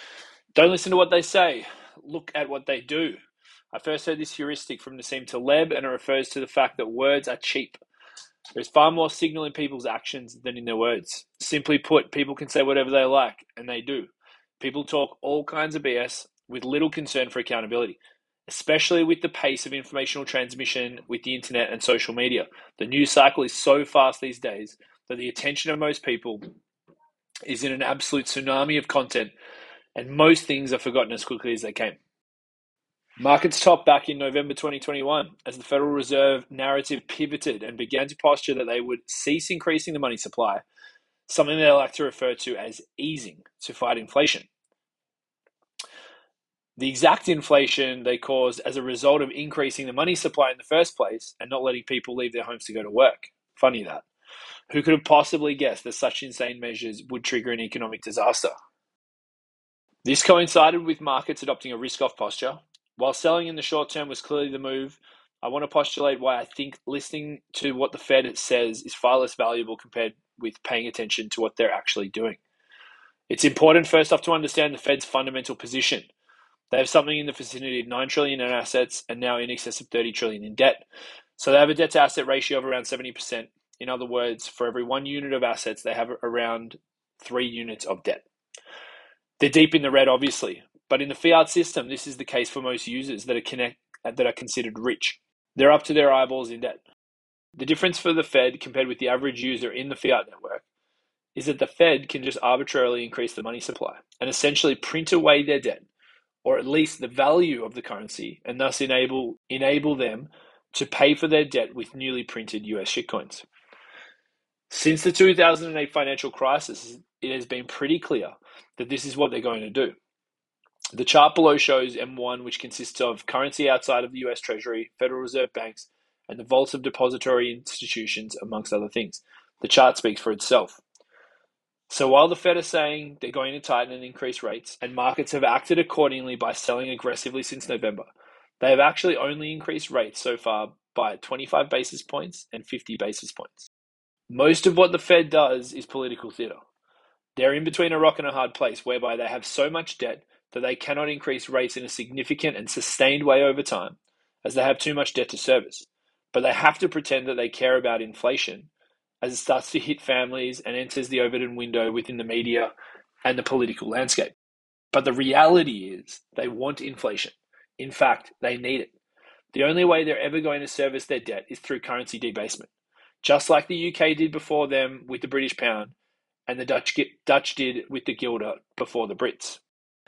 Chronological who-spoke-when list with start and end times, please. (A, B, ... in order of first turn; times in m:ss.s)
0:00.5-0:03.2 A
0:03.7-0:07.8 A
0:08.5-0:26.4 A
0:27.5-0:29.3 A
0:30.0-0:32.0 A
0:33.2-0:40.6 A
0:41.3-0:44.5 A
0:46.8-0:54.0 A
0:54.7-0:58.5 A
1:00.0-1:12.4 A
1:13.3-1:16.1 A
1:16.7-1:20.8 A
1:21.4-1:28.2 A
1:29.4-1:36.8 A
1:37.6-1:40.6 A
1:41.3-1:45.9 A
1:46.4-1:53.4 A
1:54.7-2:00.0 A
2:00.9-2:10.8 A
2:11.9-2:23.7 A
2:24.3-2:26.6 A
2:27.4-2:38.7 A
2:39.2-2:42.7 A
2:43.2-2:44.3 A
2:44.9-2:48.9 A
2:49.5-2:52.7 A
2:53.2-2:55.9 A
2:56.5-2:59.6 A